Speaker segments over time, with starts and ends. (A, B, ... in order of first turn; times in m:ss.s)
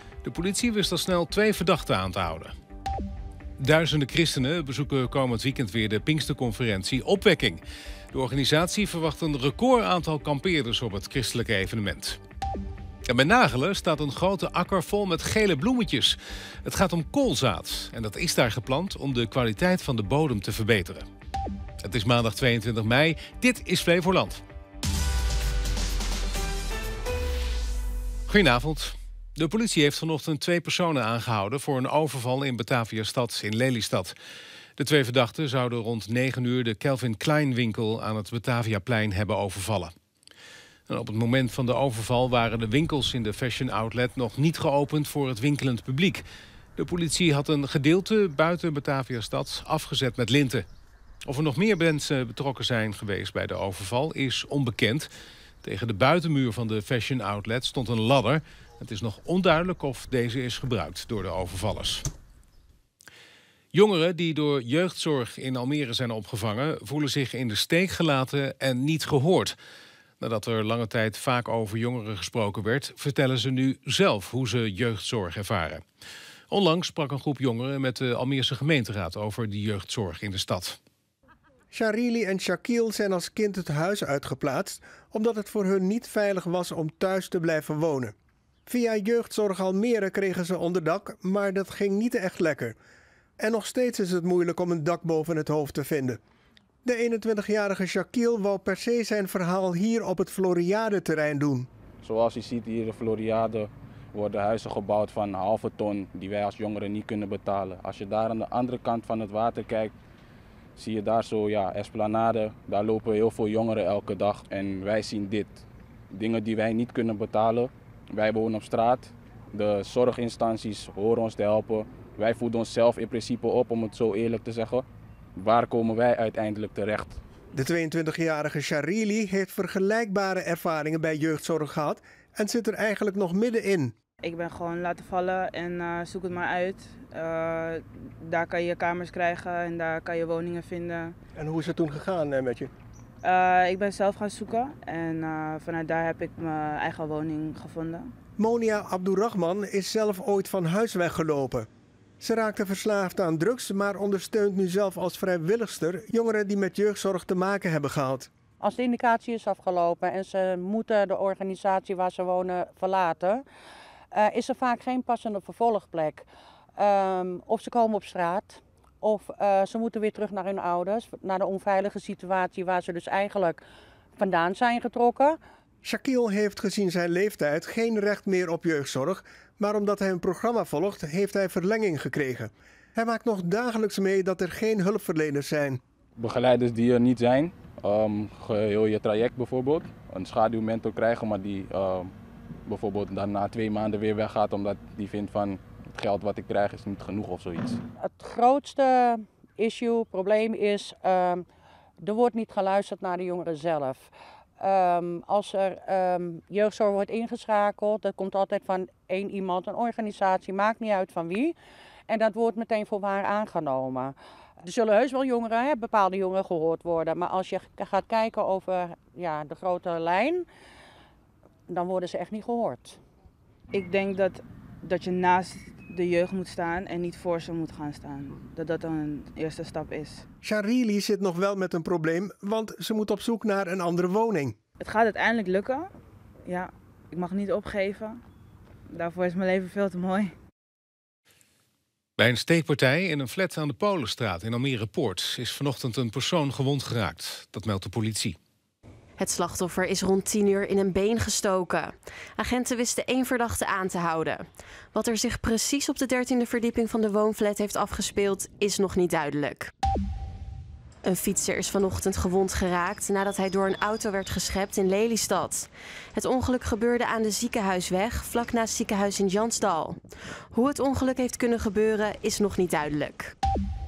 0:00.2-0:02.5 A
0:03.6-0:12.2 A
0:13.0-0:21.0 A
0:21.8-0:24.4 A
0:28.3-0:34.1 A
0:34.8-0:39.9 A
0:40.9-0:46.2 A
0:46.8-0:50.6 A
0:51.2-0:55.1 A
0:55.6-1:02.0 A
1:03.7-1:09.6 A
1:10.2-1:15.8 A
1:16.5-1:20.8 A
1:21.7-1:28.1 B
1:28.7-1:32.7 B
1:33.4-1:36.2 B
1:36.8-1:41.7 B
1:42.0-1:49.9 C
1:50.8-2:04.8 C
2:05.4-2:07.2 C
2:07.5-2:13.9 B
2:14.2-2:21.2 D
2:21.3-2:22.7 B
2:23.2-2:28.1 D
2:28.4-2:31.7 B
2:32.2-2:38.3 B
2:38.6-2:43.4 E
2:44.1-2:53.6 E
2:54.2-2:55.4 E
2:55.8-3:05.8 B
3:06.2-3:12.1 C
3:12.6-3:17.8 C
3:18.0-3:21.4 E
3:22.0-3:31.5 E
3:32.1-3:40.4 E
3:41.7-3:43.0 E
3:43.7-3:50.2 D
3:50.4-3:54.6 B
3:54.8-3:55.9 D
3:56.4-3:58.2 D
3:58.9-4:00.3 D
4:02.2-4:08.4 A
4:09.2-4:19.7 F
4:21.0-4:30.0 F
4:30.5-4:33.3 F